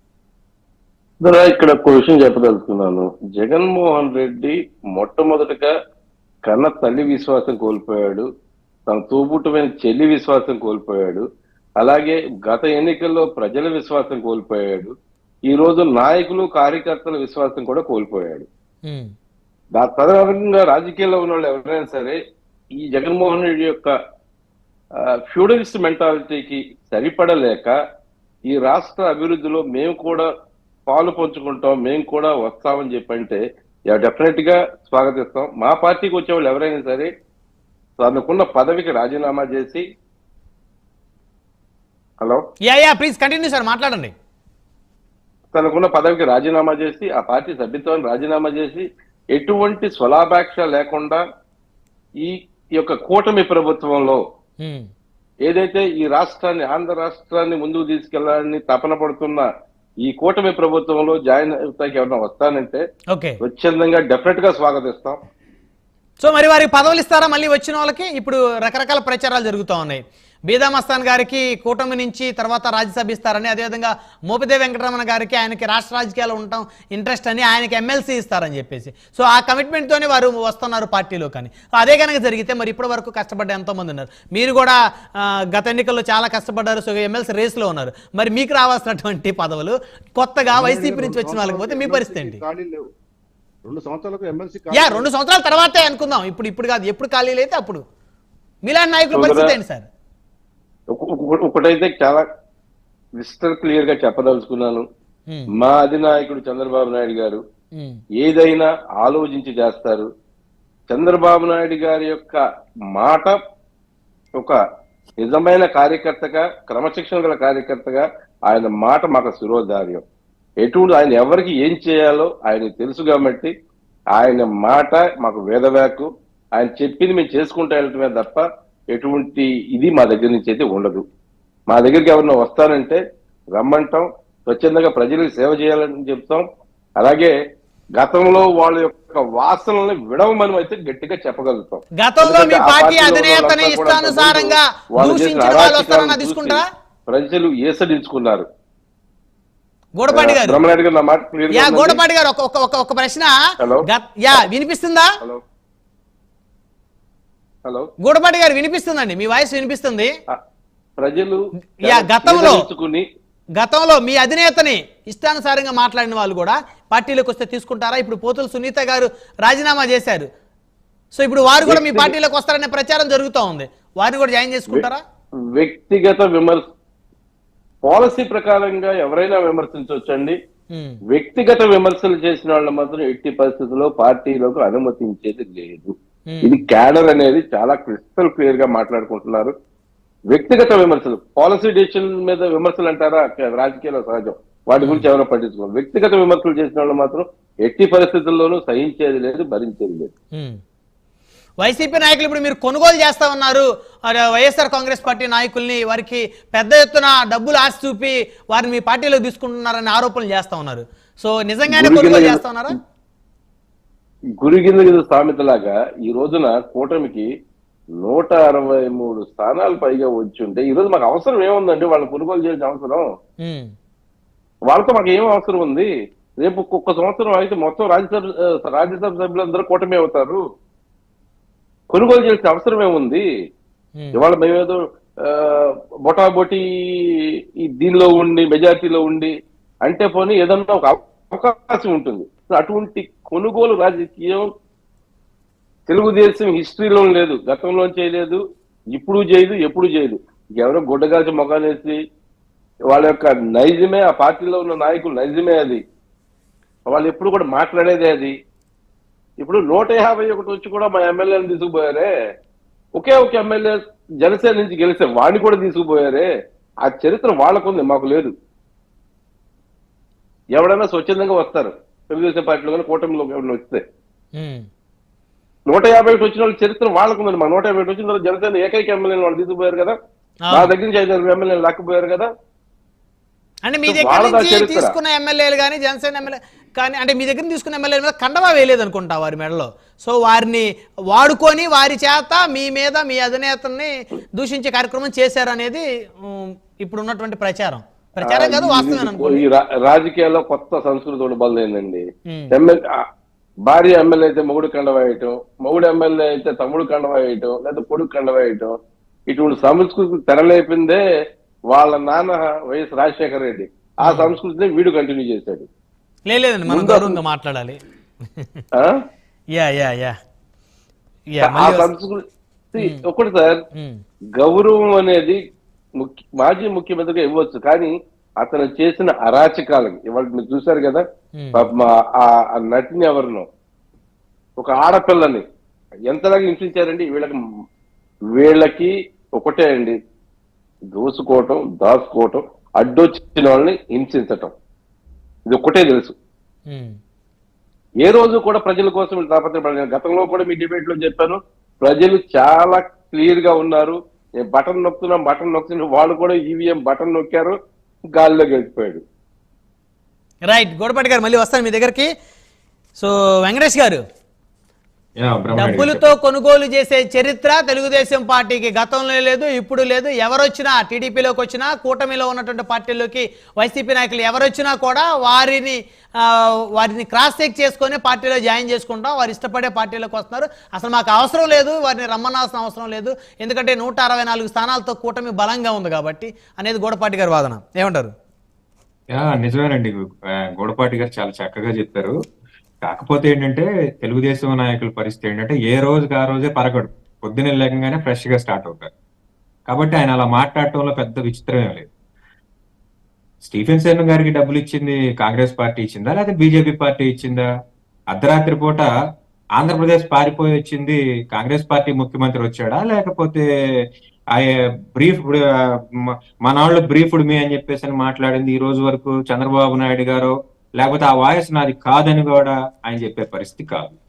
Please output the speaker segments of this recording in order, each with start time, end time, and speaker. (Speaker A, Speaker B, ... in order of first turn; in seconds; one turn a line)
Speaker A: 1.2-5.7
Speaker A: 6.5-8.3
Speaker A: 8.9-11.2
Speaker A: 11.8-14.9
Speaker A: 15.5-18.5
Speaker B: 18.9-19.1
Speaker A: 19.8-22.2
Speaker A: 22.8-23.9
Speaker A: 25.3-27.7
Speaker A: 28.5-30.3
Speaker A: 30.9-37.1
Speaker A: 38.0-39.8
Speaker B: 42.7-44.1
Speaker A: 45.5-51.2
Speaker A: 52.2-54.2
Speaker B: 54.6-54.9
Speaker A: 55.5-59.5
Speaker A: 60.0-62.8
Speaker B: 63.1-63.4
Speaker A: 63.4-65.2
Speaker B: 66.2-92.4
Speaker C: 90.5-92.9
Speaker C: 93.7-95.1
Speaker B: 94.7-97.8
Speaker B: 98.7-99.9
Speaker A: 99.1-99.5
Speaker A: 100.9-102.2
Speaker A: 103.2-104.8
Speaker A: 105.6-107.4
Speaker A: 108.2-110.1
Speaker A: 110.9-112.4
Speaker A: 113.0-113.4
Speaker A: 115.2-120.0
Speaker A: 120.6-123.5
Speaker A: 124.2-131.0
Speaker A: 131.7-133.0
Speaker A: 133.6-136.4
Speaker A: 137.0-137.3
Speaker A: 138.0-148.5
Speaker B: 142.0-146.7
Speaker B: 150.0-150.6
Speaker A: 150.1-152.0
Speaker B: 151.5-153.3
Speaker B: 153.9-155.1
Speaker B: 158.0-160.1
Speaker A: 161.0-163.1
Speaker B: 161.8-162.6
Speaker B: 163.6-170.3
Speaker B: 171.1-175.0
Speaker A: 171.6-172.1
Speaker A: 175.5-176.6
Speaker A: 177.8-180.4
Speaker B: 180.7-181.0
Speaker A: 181.1-189.5
Speaker B: 186.3-186.6
Speaker A: 190.3-200.1
Speaker B: 194.8-195.1
Speaker B: 201.6-212.7
Speaker A: 211.7-212.5
Speaker A: 214.4-217.3
Speaker A: 218.0-223.0
Speaker B: 223.4-223.7
Speaker A: 224.7-225.9
Speaker A: 226.4-230.4
Speaker A: 231.9-233.2
Speaker A: 234.2-236.6
Speaker A: 237.6-239.3
Speaker A: 239.8-244.5
Speaker A: 245.9-248.4
Speaker A: 248.9-252.0
Speaker A: 252.9-255.8
Speaker A: 256.9-258.4
Speaker A: 259.4-262.1
Speaker A: 263.0-266.3
Speaker A: 266.9-268.3
Speaker A: 270.6-273.8
Speaker B: 274.4-274.6
Speaker A: 275.7-280.0
Speaker B: 280.4-280.7
Speaker A: 280.5-282.3
Speaker B: 283.7-299.4
Speaker A: 283.9-285.0
Speaker A: 298.2-303.0
Speaker B: 302.3-302.5
Speaker A: 303.7-308.8
Speaker A: 309.3-311.0
Speaker A: 311.7-315.7
Speaker B: 314.0-314.3
Speaker B: 316.3-317.8
Speaker A: 316.7-317.2
Speaker B: 318.4-318.6
Speaker B: 319.6-320.1
Speaker B: 321.3-321.9
Speaker A: 321.4-322.2
Speaker A: 322.7-323.6
Speaker A: 324.4-325.4
Speaker A: 326.0-331.0
Speaker B: 331.4-331.6
Speaker A: 331.6-333.5
Speaker A: 334.6-335.4
Speaker A: 336.1-337.4
Speaker A: 338.4-340.0
Speaker A: 340.9-344.5
Speaker A: 345.5-346.1
Speaker B: 346.7-346.9
Speaker A: 348.0-357.6
Speaker A: 358.2-359.0
Speaker B: 360.5-362.1
Speaker B: 363.0-364.0
Speaker D: 365.2-366.1
Speaker B: 365.6-388.1
Speaker D: 389.1-392.2
Speaker D: 392.8-398.9
Speaker D: 399.7-401.9
Speaker D: 403.4-407.5
Speaker D: 408.1-408.9
Speaker D: 409.6-413.4
Speaker D: 414.3-424.0